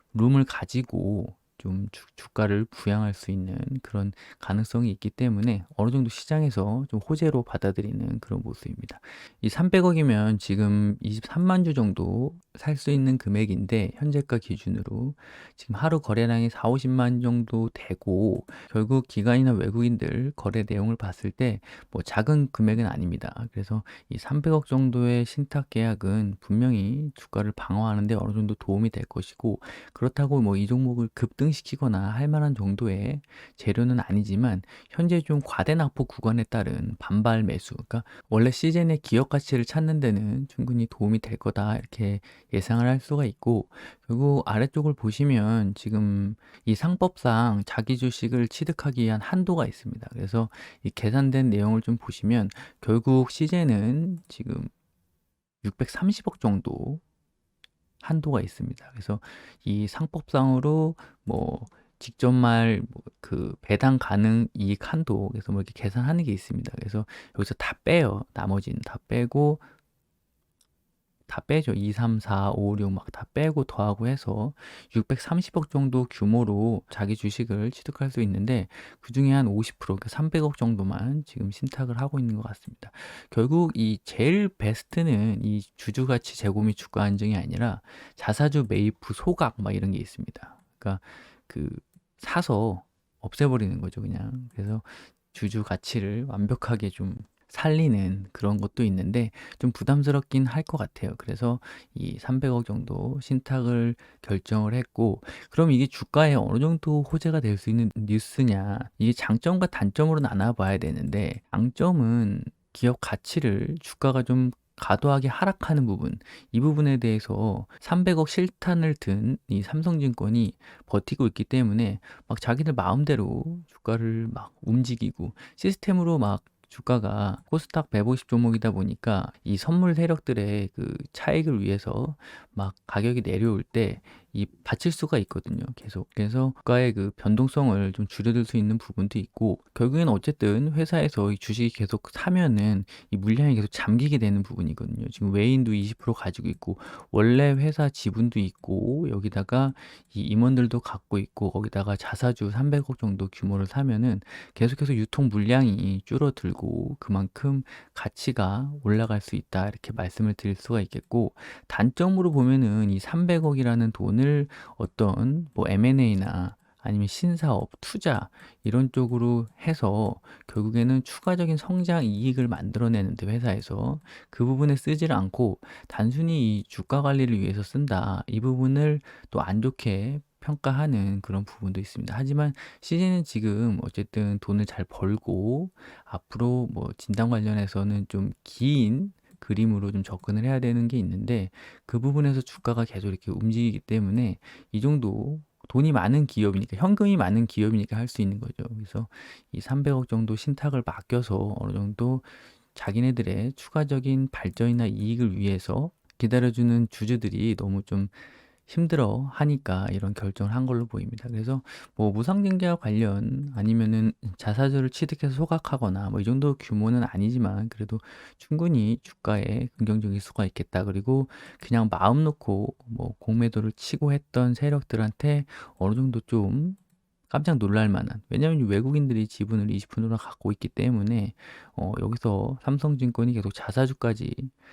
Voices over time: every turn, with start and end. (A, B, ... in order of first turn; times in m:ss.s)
0:00.1-0:54.7 A
0:55.6-0:57.0 A
0:58.0-1:09.6 A
1:11.3-3:54.5 A